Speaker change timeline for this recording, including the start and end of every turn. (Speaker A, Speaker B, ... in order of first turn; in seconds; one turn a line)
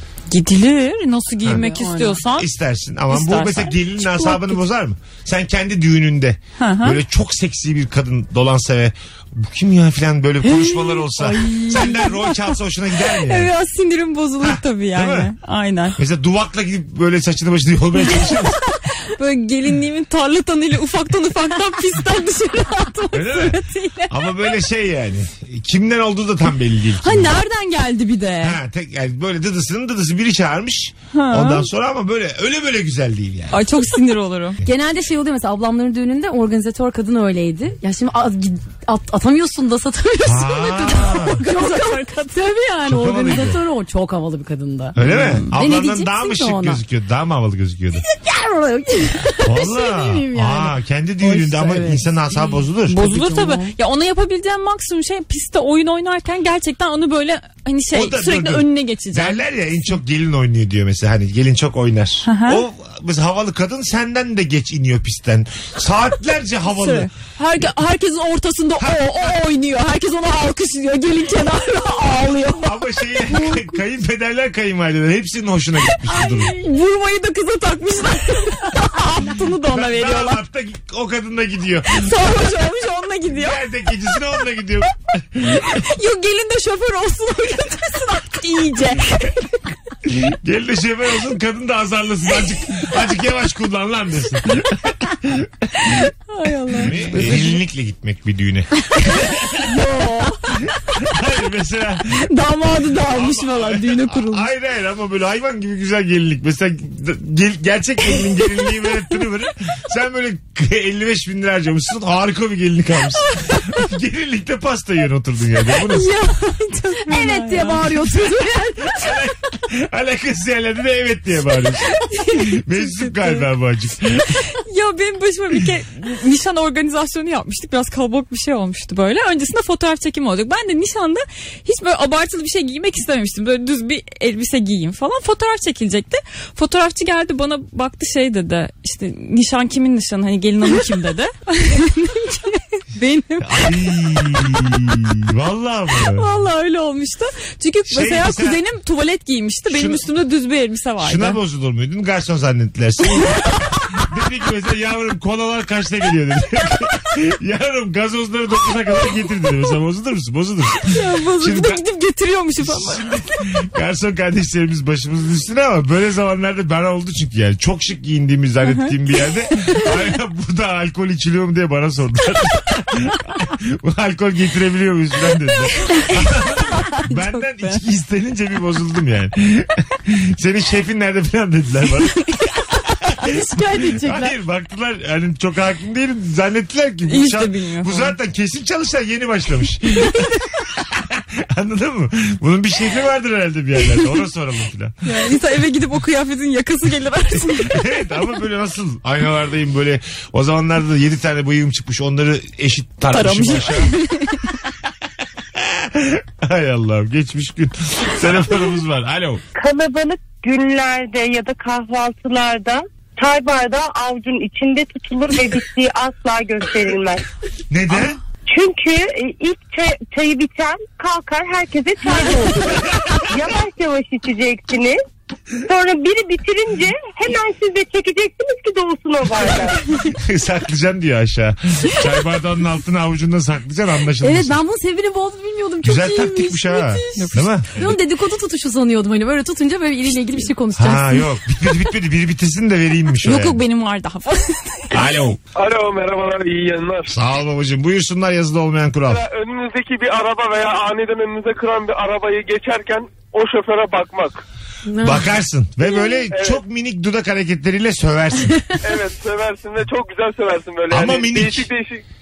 Speaker A: 0.3-2.5
Speaker B: 1.6-2.2
Speaker C: 2.3-13.5
Speaker A: 3.1-4.6
Speaker A: 6.6-7.0
Speaker B: 11.1-12.0
Speaker A: 11.4-12.5
Speaker A: 13.0-16.0
Speaker C: 14.4-15.3
Speaker C: 16.0-18.6
Speaker A: 18.1-24.5
Speaker C: 23.1-27.4
Speaker A: 27.0-28.6
Speaker C: 28.4-33.9
Speaker A: 31.1-31.7
Speaker A: 33.5-34.6
Speaker B: 34.6-46.8
Speaker C: 40.2-41.4
Speaker A: 41.5-42.4
Speaker C: 42.9-43.6
Speaker C: 45.0-48.0
Speaker A: 45.0-45.5
Speaker B: 48.1-52.2
Speaker C: 49.5-53.0
Speaker A: 52.9-59.4
Speaker B: 52.9-53.7
Speaker C: 57.9-67.1
Speaker A: 62.2-62.6
Speaker A: 66.7-72.7
Speaker C: 68.8-69.0
Speaker C: 72.6-76.5
Speaker A: 76.1-80.4
Speaker C: 79.7-82.1
Speaker A: 81.9-83.6
Speaker C: 83.3-85.8
Speaker A: 85.7-89.6
Speaker C: 90.0-96.0
Speaker A: 95.9-97.6
Speaker C: 96.8-99.7
Speaker A: 99.7-100.3
Speaker C: 100.9-102.3
Speaker A: 102.3-104.5
Speaker C: 103.1-116.1
Speaker A: 115.8-118.3
Speaker B: 117.0-119.0
Speaker C: 118.8-124.4
Speaker A: 121.9-123.5
Speaker A: 124.4-143.8
Speaker C: 143.4-146.3
Speaker A: 146.0-151.4
Speaker C: 147.9-148.6
Speaker C: 149.7-150.1
Speaker C: 151.0-161.8
Speaker A: 153.2-153.8
Speaker A: 160.9-163.2
Speaker C: 162.6-194.9
Speaker A: 175.9-177.8
Speaker B: 183.2-184.3
Speaker A: 187.1-188.2
Speaker A: 195.1-197.8
Speaker C: 197.5-203.9
Speaker A: 203.1-204.6
Speaker C: 205.6-209.4
Speaker D: 209.5-217.3
Speaker C: 217.7-218.2
Speaker D: 218.5-225.0
Speaker D: 225.6-229.8
Speaker C: 230.0-234.6
Speaker B: 234.2-241.3
Speaker C: 235.8-238.0
Speaker A: 237.2-237.4
Speaker C: 240.8-243.6
Speaker A: 243.2-245.0
Speaker C: 244.9-245.4
Speaker E: 245.6-247.2
Speaker C: 247.1-249.2
Speaker E: 249.1-254.4
Speaker B: 254.9-255.2
Speaker C: 255.0-258.7
Speaker E: 256.3-256.6
Speaker E: 258.8-262.0
Speaker C: 260.9-261.7